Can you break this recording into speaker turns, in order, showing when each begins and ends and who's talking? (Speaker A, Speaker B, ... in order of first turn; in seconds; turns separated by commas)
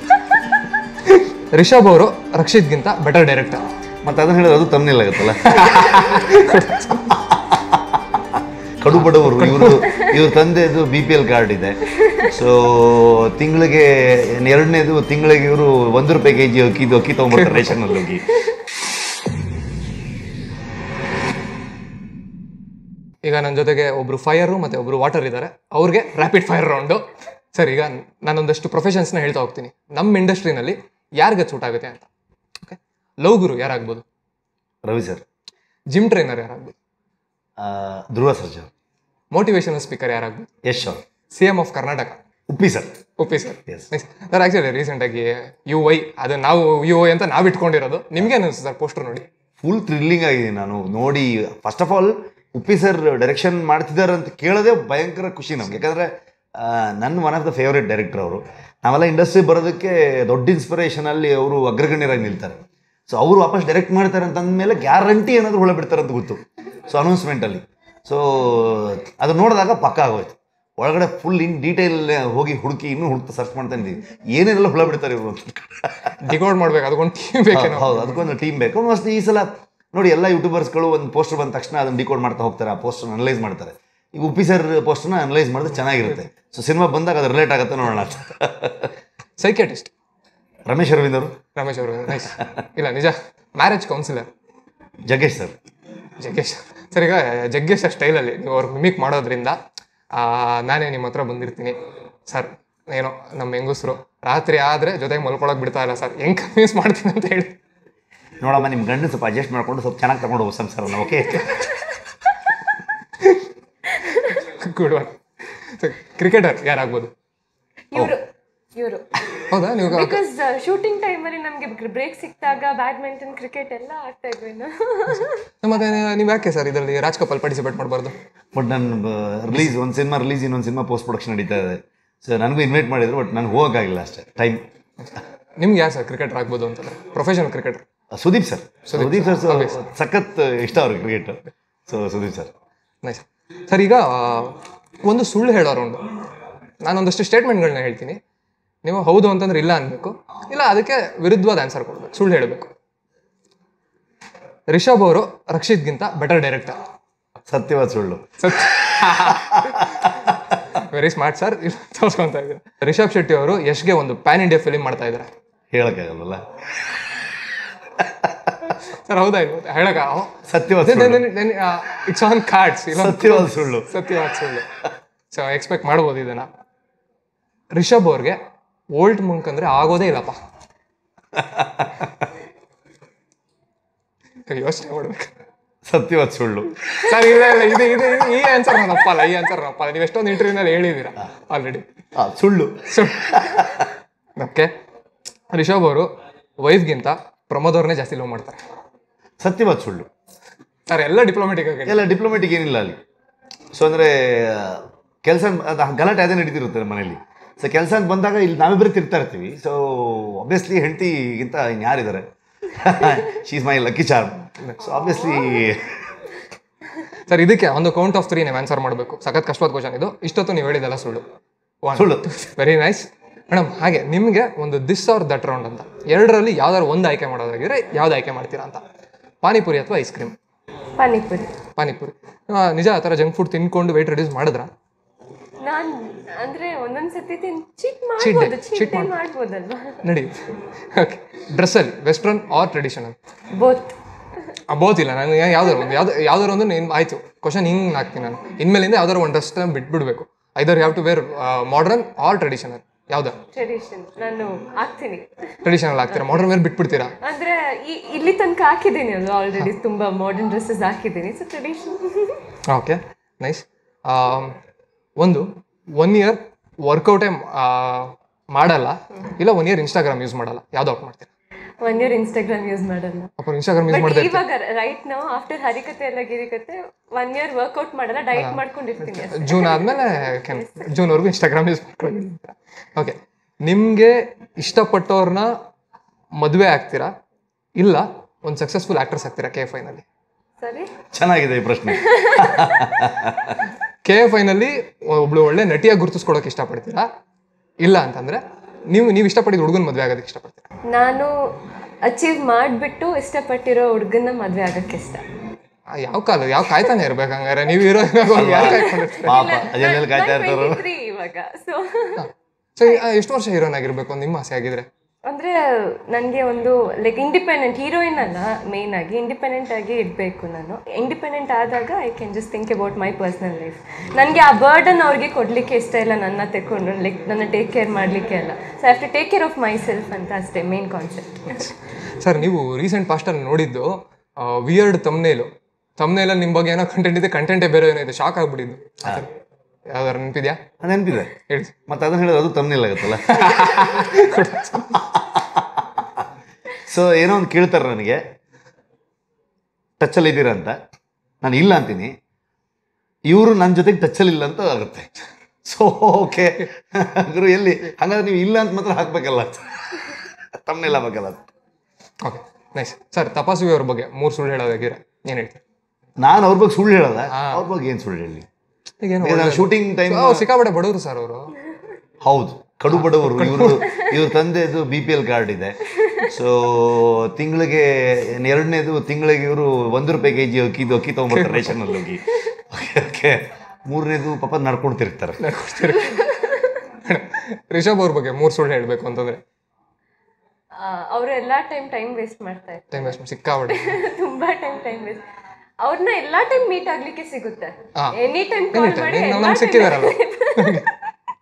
Speaker A: 1.2-3.6, Speaker B: 4.0-6.3, Speaker A: 5.5-7.1, Speaker B: 7.1-18.3, Speaker A: 8.9-9.9, Speaker C: 12.0-12.3, Speaker A: 17.3-18.1, Speaker A: 23.2-32.1, Speaker A: 32.6-34.0, Speaker B: 34.9-35.2, Speaker A: 35.9-36.7, Speaker B: 37.6-38.7, Speaker A: 39.3-40.5, Speaker B: 40.6-41.0, Speaker A: 41.3-42.2, Speaker B: 42.5-43.0, Speaker A: 43.2-49.3, Speaker B: 49.6-76.2, Speaker A: 76.2-78.3, Speaker B: 77.5-88.9, Speaker A: 89.4-89.9, Speaker B: 90.7-91.4, Speaker A: 91.5-94.3, Speaker B: 95.1-95.6, Speaker A: 96.2-99.6, Speaker A: 100.1-101.8, Speaker A: 102.3-107.6, Speaker B: 108.4-111.6, Speaker C: 114.1-114.3, Speaker A: 114.3-115.2, Speaker A: 115.8-117.1, Speaker C: 117.9-125.5, Speaker A: 119.5-120.2, Speaker A: 125.6-128.2, Speaker B: 128.5-134.6, Speaker A: 135.0-137.8, Speaker B: 138.1-142.5, Speaker A: 138.9-139.8, Speaker A: 143.0-146.1, Speaker A: 146.8-148.2, Speaker A: 148.8-152.7, Speaker A: 154.7-156.8, Speaker B: 157.5-160.5, Speaker A: 158.4-160.1, Speaker A: 160.7-165.3, Speaker B: 165.7-167.1, Speaker B: 168.0-168.7, Speaker A: 168.8-174.7, Speaker B: 170.5-171.3, Speaker B: 172.9-173.9, Speaker A: 175.3-176.5, Speaker A: 177.7-178.4, Speaker A: 178.9-180.4, Speaker B: 181.3-182.2, Speaker A: 184.5-185.3, Speaker B: 185.8-187.4, Speaker A: 186.9-191.9, Speaker B: 192.2-193.9, Speaker A: 192.9-193.7, Speaker A: 194.4-194.7, Speaker A: 195.5-198.7, Speaker B: 199.4-200.1, Speaker A: 200.9-202.1, Speaker B: 201.9-203.0, Speaker B: 203.7-216.0, Speaker A: 217.3-221.2, Speaker A: 221.8-228.8, Speaker B: 221.9-222.3, Speaker A: 229.4-230.4, Speaker C: 231.0-231.5, Speaker A: 231.8-234.7, Speaker C: 235.6-240.0, Speaker A: 238.2-239.1, Speaker A: 240.0-243.2, Speaker C: 243.5-243.9, Speaker A: 244.7-253.4, Speaker C: 253.5-255.6, Speaker A: 255.6-257.1, Speaker C: 257.2-262.4, Speaker A: 262.7-264.6, Speaker A: 265.2-265.5, Speaker A: 266.0-271.3, Speaker C: 271.8-273.3, Speaker A: 273.4-274.4, Speaker C: 273.9-280.9, Speaker A: 278.4-285.5, Speaker A: 286.4-287.1, Speaker A: 287.8-290.1, Speaker C: 290.6-290.9, Speaker B: 291.1-293.6, Speaker C: 292.0-292.7, Speaker A: 294.0-297.1, Speaker A: 297.8-300.7, Speaker C: 300.9-305.2, Speaker A: 306.0-309.6, Speaker B: 308.3-310.8, Speaker C: 308.5-312.3, Speaker A: 312.2-314.9, Speaker C: 315.3-331.8, Speaker A: 332.2-339.3, Speaker A: 339.9-340.6, Speaker B: 340.8-341.3, Speaker A: 341.5-341.8, Speaker B: 341.9-343.9, Speaker A: 343.1-345.2, Speaker B: 345.4-346.0, Speaker B: 346.7-348.2, Speaker B: 350.0-350.8, Speaker B: 351.4-352.1, Speaker B: 353.3-361.4, Speaker A: 362.2-365.6, Speaker B: 366.2-368.5, Speaker A: 367.3-367.6, Speaker A: 369.0-371.6, Speaker B: 369.2-370.5, Speaker B: 372.2-385.4, Speaker A: 372.9-374.1, Speaker A: 381.3-382.1, Speaker A: 385.4-386.3, Speaker C: 385.9-386.8, Speaker A: 386.8-389.4, Speaker C: 390.8-393.2, Speaker A: 392.9-393.9, Speaker C: 393.7-395.2, Speaker C: 395.8-400.9, Speaker A: 398.7-400.9